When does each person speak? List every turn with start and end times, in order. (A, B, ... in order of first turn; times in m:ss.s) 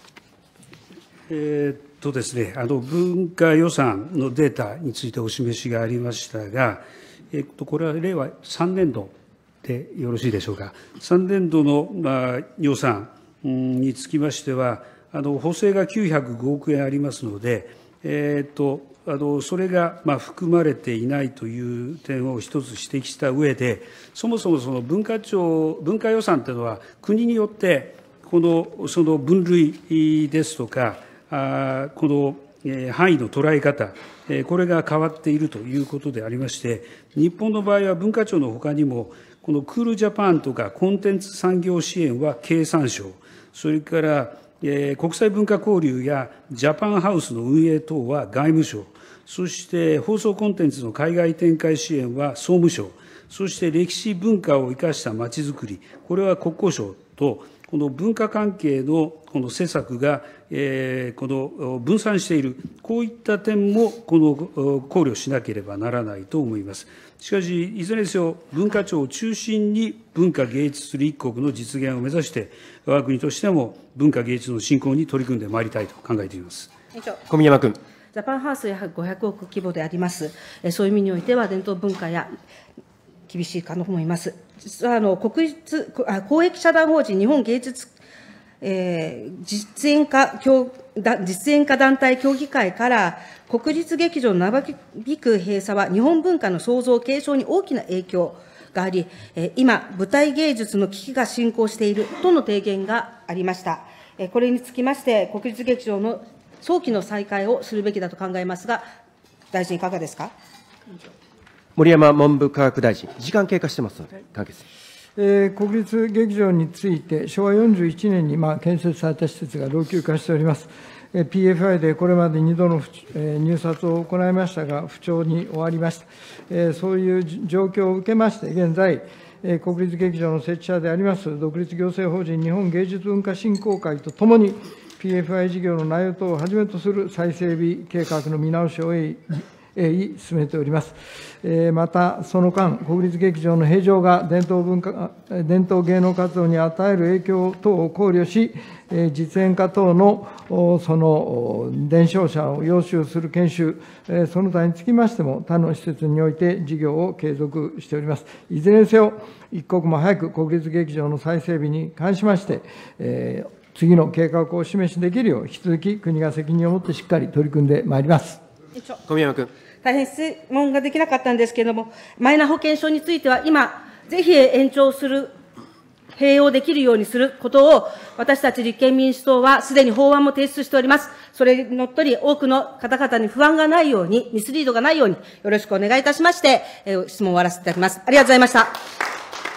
0:01.3-1:16.7 A
1:17.0-1:17.2 B
1:17.3-1:17.7 C
1:18.1-1:22.3 B
1:23.3-1:28.0 B
1:28.6-1:48.8 B
1:49.5-1:50.3 B
1:51.8-1:54.6 C
1:55.2-2:48.4 D
2:49.1-2:49.5 C
2:49.8-2:55.3 B
2:56.2-3:08.8 B